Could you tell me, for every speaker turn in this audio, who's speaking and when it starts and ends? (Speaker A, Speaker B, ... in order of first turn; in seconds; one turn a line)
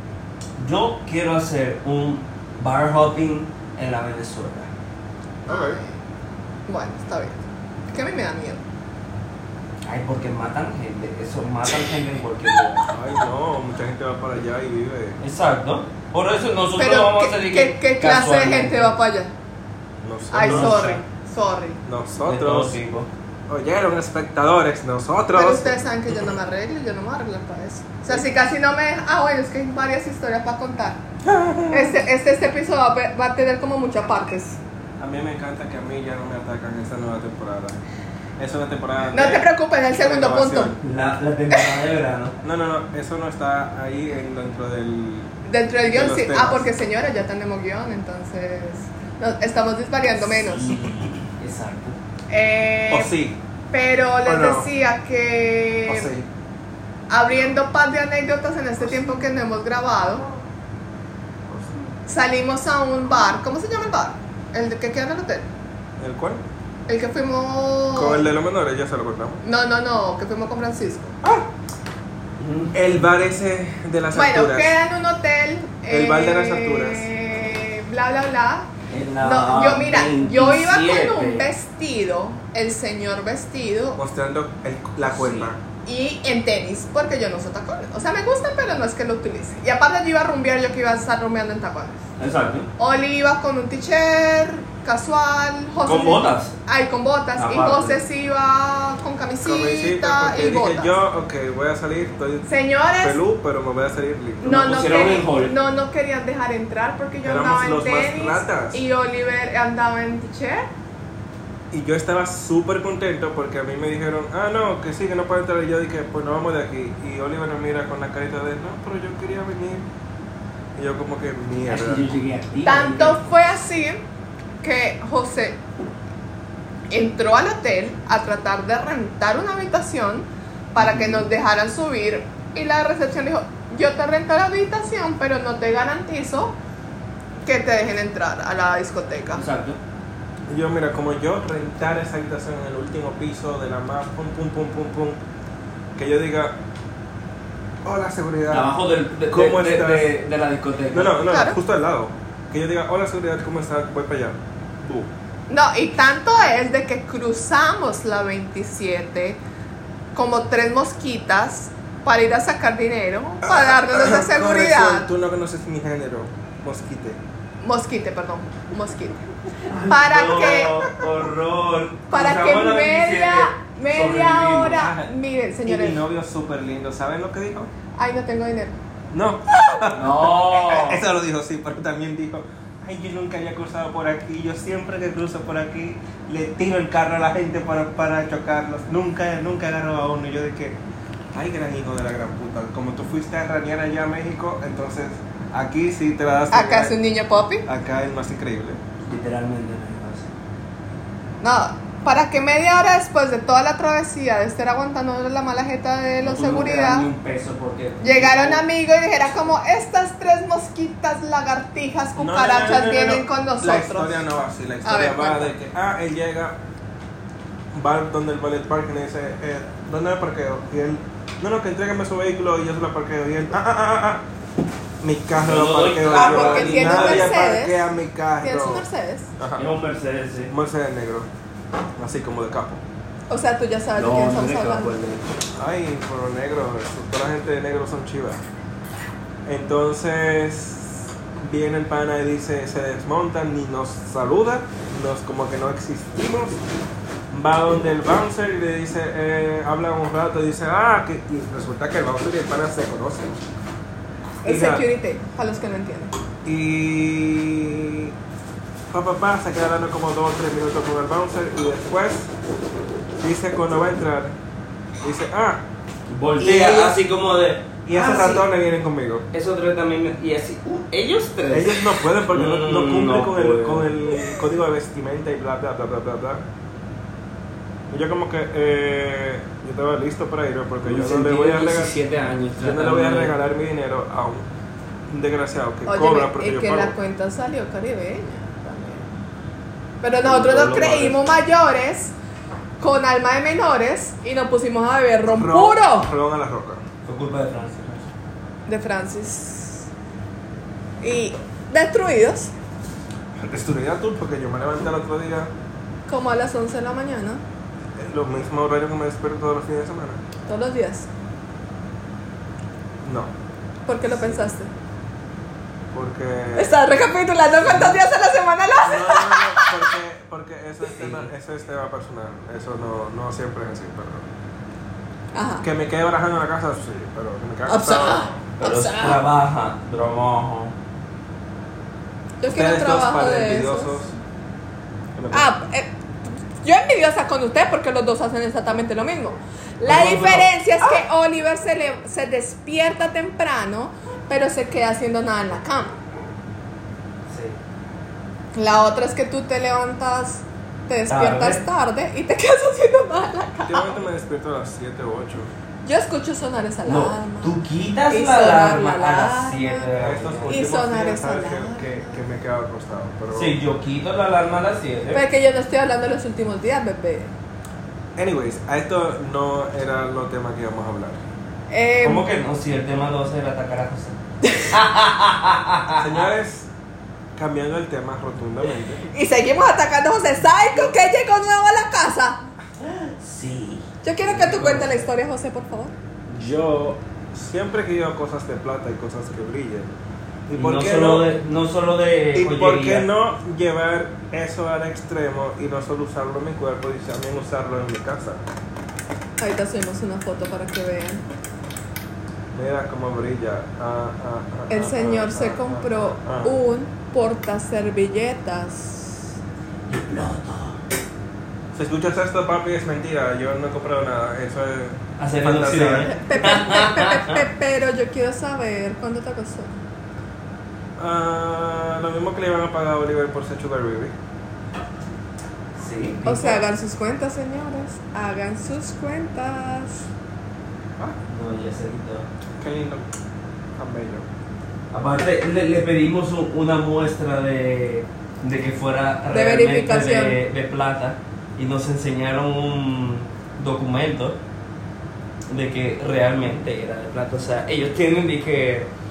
Speaker A: 0.6-4.7
Speaker B: 5.5-5.8
Speaker C: 5.5-6.0
Speaker C: 6.7-8.6
Speaker A: 9.9-12.9
Speaker B: 12.9-15.2
Speaker A: 15.2-18.9
Speaker C: 16.8-19.3
Speaker B: 20.0-21.0
Speaker C: 20.3-21.8
Speaker A: 20.4-21.0
Speaker B: 21.9-22.8
Speaker A: 22.3-23.1
Speaker B: 23.5-26.4
Speaker C: 25.3-31.0
Speaker B: 31.2-32.0
Speaker C: 31.7-34.6
Speaker B: 35.0-37.8
Speaker B: 38.4-40.8
Speaker C: 39.1-40.8
Speaker A: 40.8-42.4
Speaker B: 42.4-45.3
Speaker C: 45.5-50.8
Speaker B: 45.9-46.7
Speaker A: 50.2-52.0
Speaker C: 52.3-53.1
Speaker B: 52.9-53.4
Speaker C: 53.7-56.1
Speaker B: 54.2-54.7
Speaker B: 55.9-56.3
Speaker C: 57.1-60.3
Speaker B: 61.5-61.9
Speaker C: 62.1-65.5
Speaker B: 66.0-66.4
Speaker C: 66.9-68.3
Speaker B: 67.9-69.4
Speaker C: 69.4-71.2
Speaker B: 71.2-71.5
Speaker A: 72.4-73.0
Speaker B: 72.7-74.8
Speaker C: 74.1-84.0
Speaker B: 75.9-77.1
Speaker A: 78.9-81.5
Speaker B: 84.0-85.6
Speaker C: 85.2-92.0
Speaker A: 92.2-92.7
Speaker C: 92.8-101.0
Speaker A: 95.9-96.5
Speaker A: 97.4-98.0
Speaker B: 99.4-102.5
Speaker C: 102.5-103.2
Speaker B: 103.0-104.5
Speaker A: 104.4-105.5
Speaker C: 104.4-110.7
Speaker B: 107.2-108.8
Speaker B: 111.7-119.9
Speaker B: 120.8-122.1
Speaker A: 121.7-123.2
Speaker C: 122.6-124.0
Speaker C: 124.6-125.6
Speaker C: 126.9-136.6
Speaker C: 137.4-139.4
Speaker A: 139.3-139.8
Speaker B: 140.5-145.2
Speaker B: 146.0-146.6
Speaker B: 147.8-148.7
Speaker A: 148.5-151.2
Speaker B: 149.3-150.1
Speaker B: 150.9-155.1
Speaker C: 151.3-151.6
Speaker C: 155.5-159.4
Speaker C: 160.1-165.1
Speaker B: 163.4-167.2
Speaker C: 167.6-169.2
Speaker A: 169.7-174.8
Speaker C: 169.8-170.9
Speaker C: 172.1-176.0
Speaker B: 174.7-175.1
Speaker B: 175.7-177.7
Speaker C: 178.0-178.8
Speaker B: 179.1-190.8
Speaker A: 180.0-181.0
Speaker B: 191.3-196.9
Speaker C: 196.5-197.7
Speaker B: 197.7-198.8
Speaker A: 199.1-200.3
Speaker C: 201.4-207.1
Speaker A: 206.2-208.7
Speaker C: 208.0-214.2
Speaker B: 212.2-216.6
Speaker C: 214.8-215.5
Speaker B: 217.7-224.2
Speaker B: 225.0-228.8
Speaker A: 225.4-227.4
Speaker C: 226.1-227.9
Speaker C: 228.4-229.3
Speaker B: 229.4-229.7
Speaker A: 229.6-230.5
Speaker B: 230.5-231.3
Speaker B: 232.0-232.8
Speaker C: 233.3-234.9
Speaker A: 234.0-235.3
Speaker B: 235.6-238.4
Speaker B: 239.5-246.6
Speaker B: 247.3-253.4
Speaker B: 254.4-254.8
Speaker C: 254.4-256.1
Speaker B: 256.4-258.1
Speaker B: 258.9-262.3
Speaker B: 263.2-264.4
Speaker B: 265.0-265.6
Speaker A: 266.1-268.4
Speaker B: 266.4-267.0
Speaker B: 267.9-269.3
Speaker A: 269.3-274.3
Speaker B: 271.5-276.4
Speaker B: 277.9-282.0
Speaker A: 280.8-283.3
Speaker B: 282.6-284.5
Speaker B: 285.1-286.9
Speaker C: 285.9-289.1
Speaker C: 290.0-292.1
Speaker A: 290.2-291.2
Speaker C: 292.8-296.1
Speaker B: 295.3-296.8
Speaker A: 297.1-298.1
Speaker C: 298.7-299.9
Speaker C: 301.0-302.5
Speaker B: 303.4-305.5
Speaker C: 306.1-307.4
Speaker B: 308.0-310.2
Speaker C: 310.5-311.1
Speaker B: 313.0-313.3
Speaker C: 313.9-314.7
Speaker B: 314.1-314.4
Speaker B: 315.9-316.8
Speaker C: 316.6-319.8
Speaker B: 317.6-318.0
Speaker B: 318.8-324.3
Speaker A: 321.0-321.3
Speaker C: 325.3-325.6
Speaker B: 325.6-328.4
Speaker C: 327.7-329.2
Speaker A: 328.6-330.8
Speaker C: 332.4-334.0
Speaker B: 332.5-334.1
Speaker B: 335.2-335.5
Speaker C: 335.3-346.0
Speaker B: 339.9-340.4
Speaker A: 347.3-347.6
Speaker C: 348.5-354.1
Speaker A: 351.1-351.6
Speaker B: 353.7-355.5
Speaker C: 355.9-357.6
Speaker A: 356.9-360.6
Speaker C: 358.1-359.9
Speaker B: 360.0-363.6
Speaker C: 360.5-362.2
Speaker A: 363.3-365.2
Speaker C: 365.1-367.3
Speaker B: 368.2-371.2
Speaker C: 371.7-372.3
Speaker A: 372.0-376.3
Speaker C: 374.4-374.7
Speaker B: 376.0-376.7
Speaker B: 377.4-379.1
Speaker C: 379.1-382.4
Speaker A: 382.8-385.1
Speaker C: 384.0-385.9
Speaker B: 386.3-389.9
Speaker B: 390.5-391.3
Speaker A: 390.6-393.1
Speaker B: 392.4-398.4
Speaker C: 399.4-401.2
Speaker B: 402.5-406.6
Speaker C: 404.7-409.2
Speaker A: 409.9-410.8
Speaker B: 411.7-416.1
Speaker A: 415.2-417.4
Speaker C: 416.1-419.7
Speaker B: 421.0-424.1
Speaker A: 425.8-426.6
Speaker C: 426.2-430.1
Speaker A: 431.3-432.3
Speaker B: 432.6-433.1
Speaker B: 433.8-434.3
Speaker A: 434.9-444.4
Speaker C: 439.3-440.4
Speaker A: 445.5-448.9